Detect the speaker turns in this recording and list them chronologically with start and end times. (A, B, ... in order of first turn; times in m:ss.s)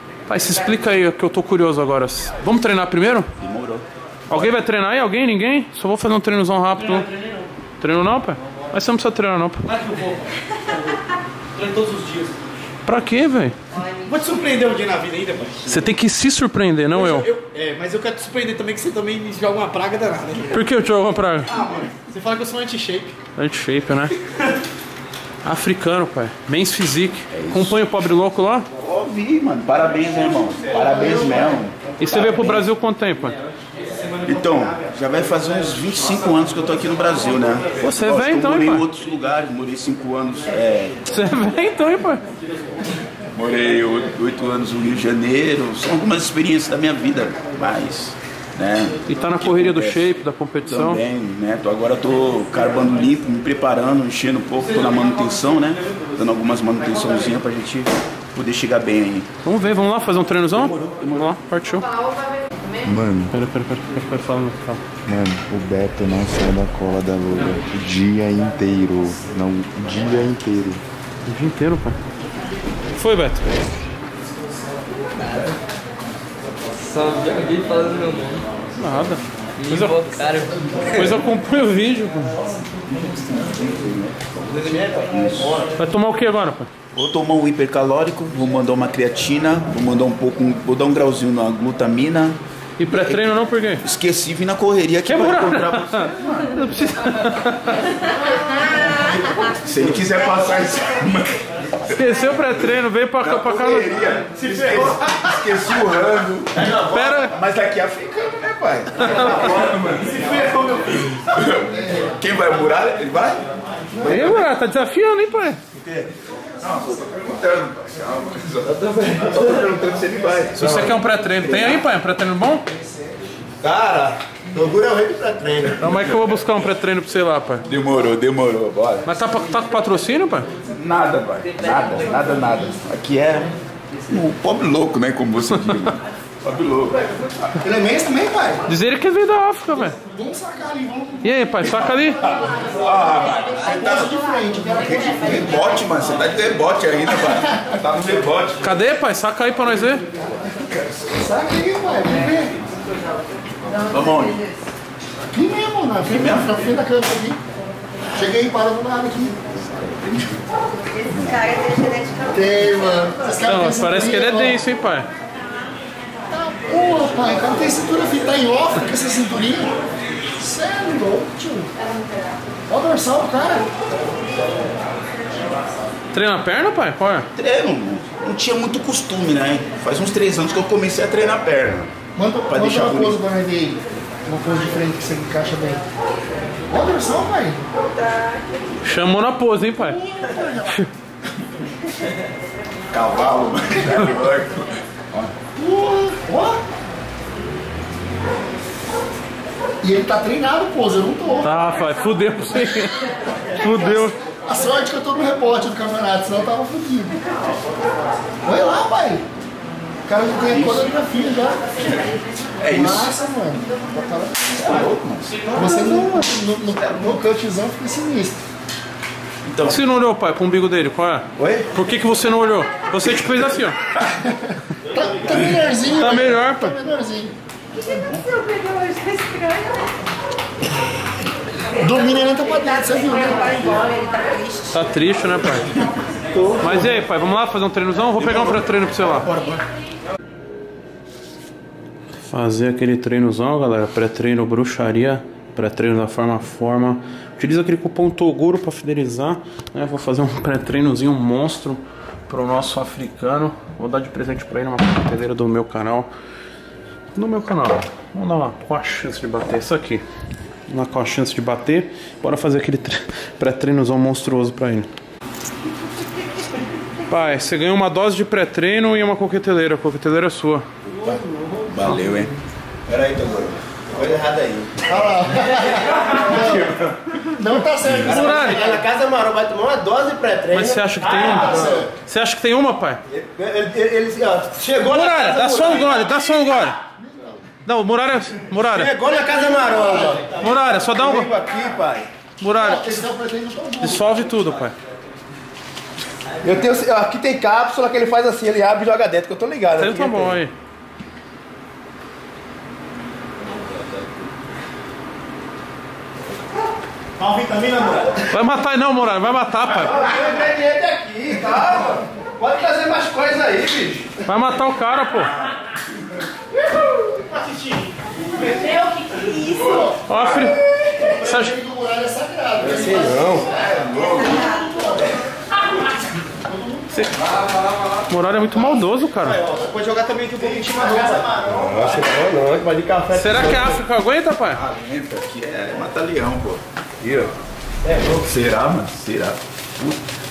0:00.3-0:03.3 A
0:03.4-0:04.3 B
0:04.3-0:07.1 A
0:07.8-0:09.7 A
0:11.6-0:12.4 C
0:12.8-0:13.6 A
0:13.7-0:14.2 D
0:14.3-0:15.5 C
0:15.6-0:17.3 A
0:17.4-0:20.2 C
0:20.5-0:21.5 A
0:22.0-0:23.1 C
0:23.3-0:24.1 A
0:25.4-0:28.7 A
0:27.3-0:27.8 B
0:28.8-0:32.7 B
0:32.0-0:33.4 A
0:34.2-0:41.1 B
0:37.8-0:38.8 A
0:41.1-0:42.2 A
0:43.3-0:50.1 B
0:49.1-0:51.0 A
0:50.6-0:59.3 B
0:59.4-1:01.9 A
1:00.6-1:01.3 B
1:02.8-1:03.3 E
1:03.3-1:04.8 A
1:05.1-1:10.8 E
1:11.2-1:12.0 A
1:12.9-1:13.5 A
1:15.2-1:15.5 F
1:16.8-1:18.5 F
1:18.8-1:20.0 A
1:19.6-1:21.1 F
1:20.8-1:22.4 A
1:22.7-1:25.6 B
1:25.8-1:26.7 A
1:26.9-1:36.7 B
1:32.8-1:33.8 A
1:35.0-1:37.9 A
1:38.6-1:42.1 B
1:41.9-1:43.9 A
1:43.2-1:46.7 B
1:46.6-1:47.1 G
1:46.9-1:47.3 A
1:47.2-1:53.4 B
1:50.2-1:50.5 G
1:54.0-1:54.4 G
1:54.0-1:55.6 A
1:55.8-1:56.0 G
1:56.6-2:00.8 B
1:58.8-1:59.2 G
2:00.6-2:02.7 A
2:00.6-2:00.9 G
2:01.4-2:01.8 B
2:03.6-2:06.0 G
2:05.8-2:07.6 A
2:07.6-2:09.1 B
2:09.0-2:10.5 A
2:10.6-2:13.5 B
2:14.0-2:17.5 B
2:15.4-2:15.9 A
2:17.6-2:18.6 H
2:18.7-2:20.0 A
2:20.0-2:22.0 H
2:21.2-2:22.2 A
2:22.2-2:24.2 B
2:23.6-2:25.6 H
2:24.7-2:28.8 B
2:27.2-2:27.8 H
2:28.6-2:30.0 A
2:30.6-2:31.0 B
2:31.1-2:32.5 H
2:33.7-2:34.2 D
2:33.8-2:34.5 B
2:35.3-2:37.4 H
2:36.0-2:36.7 B
2:38.1-2:39.4 H
2:39.6-2:40.4 B
2:40.9-2:43.5 D
2:41.1-2:42.0 B
2:42.3-2:44.6 H
2:43.4-2:45.1 A
2:46.3-2:49.8 H
2:50.3-2:51.7 H
2:52.7-2:53.7 H
2:56.1-2:57.3 A
2:57.4-3:01.9 B
3:02.1-3:05.8 H
3:02.5-3:03.2 B
3:06.7-3:07.6 H
3:08.0-3:08.6 D
3:08.8-3:10.0 A
3:09.8-3:10.7 H
3:12.9-3:15.4 B
3:15.5-3:16.6 H
3:19.8-3:21.6 H
3:21.4-3:24.2 A
3:23.6-3:27.2 H
3:28.4-3:29.2 H
3:30.0-3:31.7 H
3:30.5-3:30.9 B
3:32.6-3:33.2 B
3:32.6-3:34.8 H
3:34.6-3:35.5 B
3:35.5-3:38.4 H
3:35.5-3:35.8 A
3:36.8-3:37.1 B
3:39.4-3:39.8 B
3:39.6-3:43.8 A
3:41.4-3:41.7 G
3:44.8-3:47.3 H
3:45.9-3:46.8 A
3:47.7-3:49.9 D
3:51.8-3:53.7 H
3:51.9-3:54.8 D
3:54.7-3:55.7 A
3:56.4-3:56.7 G
3:56.6-3:59.3 A
3:58.2-3:59.6 B
4:02.3-4:16.1 A
4:17.1-4:20.0 A
4:20.7-4:24.9 A
4:27.1-4:30.6 A
4:30.9-4:32.3 B
4:32.9-4:33.6 B
4:33.9-4:34.9 G
4:34.9-4:36.7 H
4:36.1-4:36.9 B
4:37.2-4:38.8 H
4:37.8-4:38.3 B
4:37.9-4:41.9 G
4:38.0-4:38.6 A
4:40.5-4:43.0 A
4:41.3-4:41.9 H
4:43.0-4:46.2 G
4:44.9-4:46.8 A
4:46.9-4:47.4 H
4:47.6-4:48.9 A
4:48.6-4:52.1 G
4:49.1-4:50.2 H
4:50.4-4:51.3 A
4:52.4-4:53.0 A
4:52.5-4:54.2 H
4:53.8-4:54.8 A
4:56.4-5:00.4 G
4:59.8-5:00.5 A
5:07.5-5:07.8 C
5:08.3-5:09.9 A
5:09.7-5:14.1 G
5:14.2-5:15.3 A
5:18.4-5:20.0 D
5:19.5-5:19.9 B
5:19.8-5:20.3 H
5:20.0-5:20.6 A
5:21.0-5:25.2 H
5:21.2-5:21.6 A
5:22.6-5:23.4 G
5:23.5-5:24.3 B
5:23.9-5:24.8 D
5:26.3-5:27.0 H
5:26.9-5:27.2 A
5:28.1-5:29.4 A
5:29.2-5:33.8 G
5:29.4-5:29.8 H
5:30.4-5:31.4 H
5:31.5-5:31.9 B
5:33.1-5:34.6 A
5:34.5-5:36.6 B
5:37.0-5:37.3 G
5:37.9-5:40.0 B